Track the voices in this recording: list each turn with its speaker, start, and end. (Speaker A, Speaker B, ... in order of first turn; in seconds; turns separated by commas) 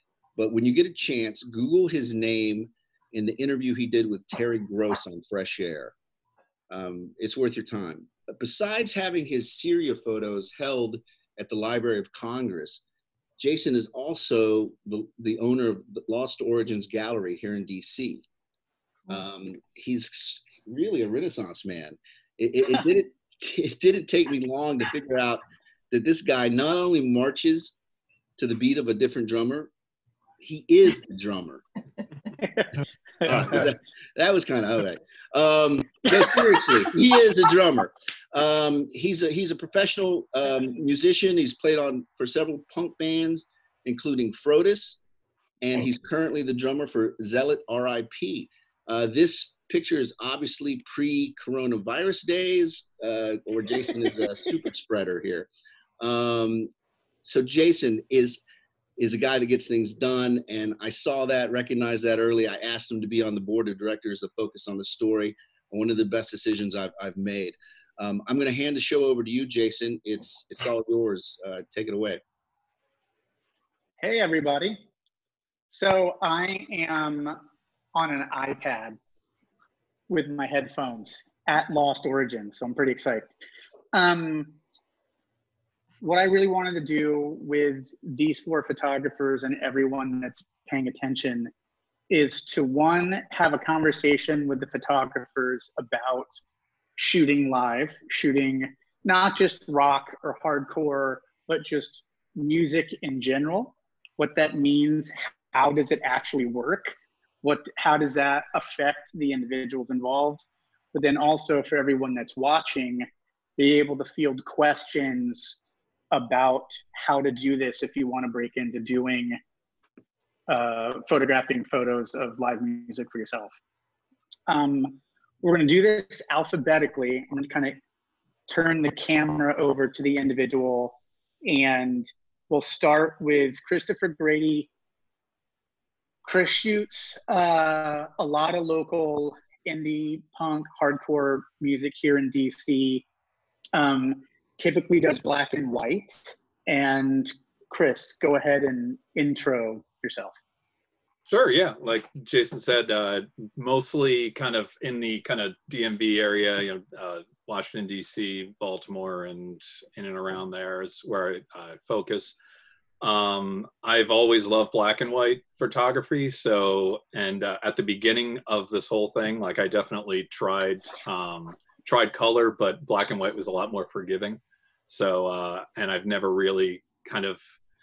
Speaker A: 0.4-5.9, Speaker A: 6.7-12.8, Speaker A: 13.4-18.2, Speaker A: 19.1-27.7, Speaker A: 28.4-29.7, Speaker A: 30.4-31.6, Speaker B: 32.4-33.6, Speaker A: 33.2-45.0, Speaker B: 36.1-36.9, Speaker A: 45.6-55.5, Speaker A: 56.0-56.7, Speaker A: 57.2-58.4, Speaker A: 59.0-72.2, Speaker B: 74.0-74.8, Speaker B: 75.7-77.4, Speaker B: 77.9-79.0, Speaker B: 80.1-83.3, Speaker B: 83.9-84.6, Speaker B: 86.0-91.5, Speaker B: 92.1-96.4, Speaker B: 97.0-115.6, Speaker B: 116.1-119.4, Speaker B: 120.5-123.5, Speaker B: 124.5-127.8, Speaker B: 128.5-134.7, Speaker B: 136.2-143.1, Speaker B: 143.7-150.3, Speaker C: 151.3-162.3, Speaker C: 163.0-177.4